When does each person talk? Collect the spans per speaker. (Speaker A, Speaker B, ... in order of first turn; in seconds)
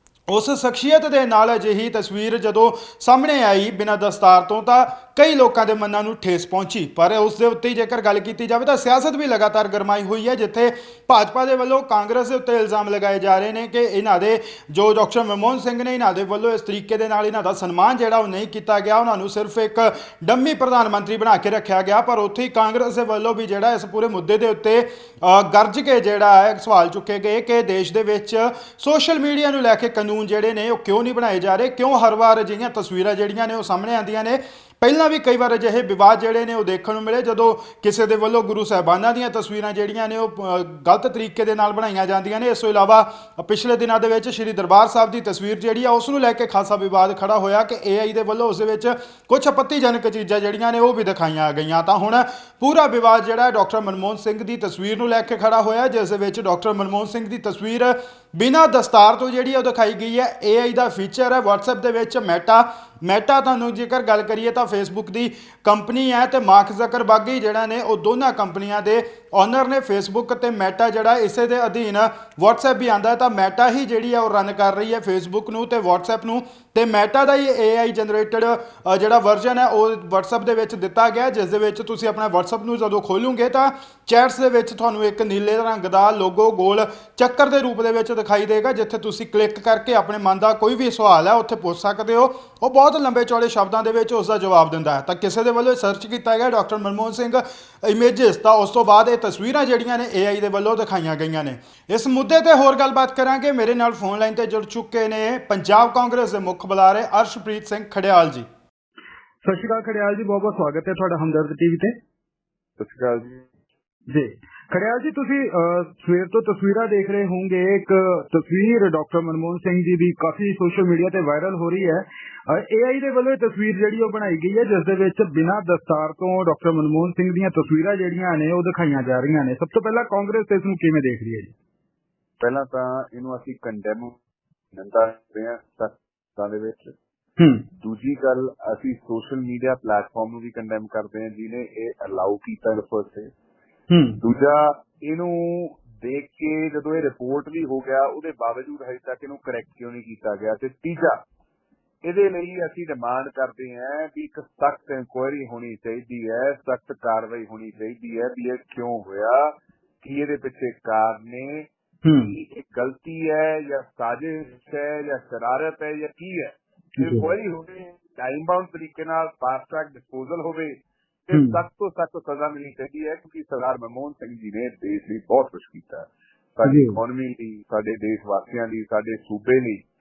Speaker A: 0.3-108.5
Speaker B: 109.4-112.0, 114.1-131.5, 137.4-137.7, 143.9-144.2, 162.0-162.3, 167.0-167.3, 171.3-171.6, 176.6-177.0
Speaker C: 112.8-113.4, 132.4-134.2, 134.7-136.9, 137.8-143.3, 144.2-151.2, 152.0-161.7, 162.2-179.8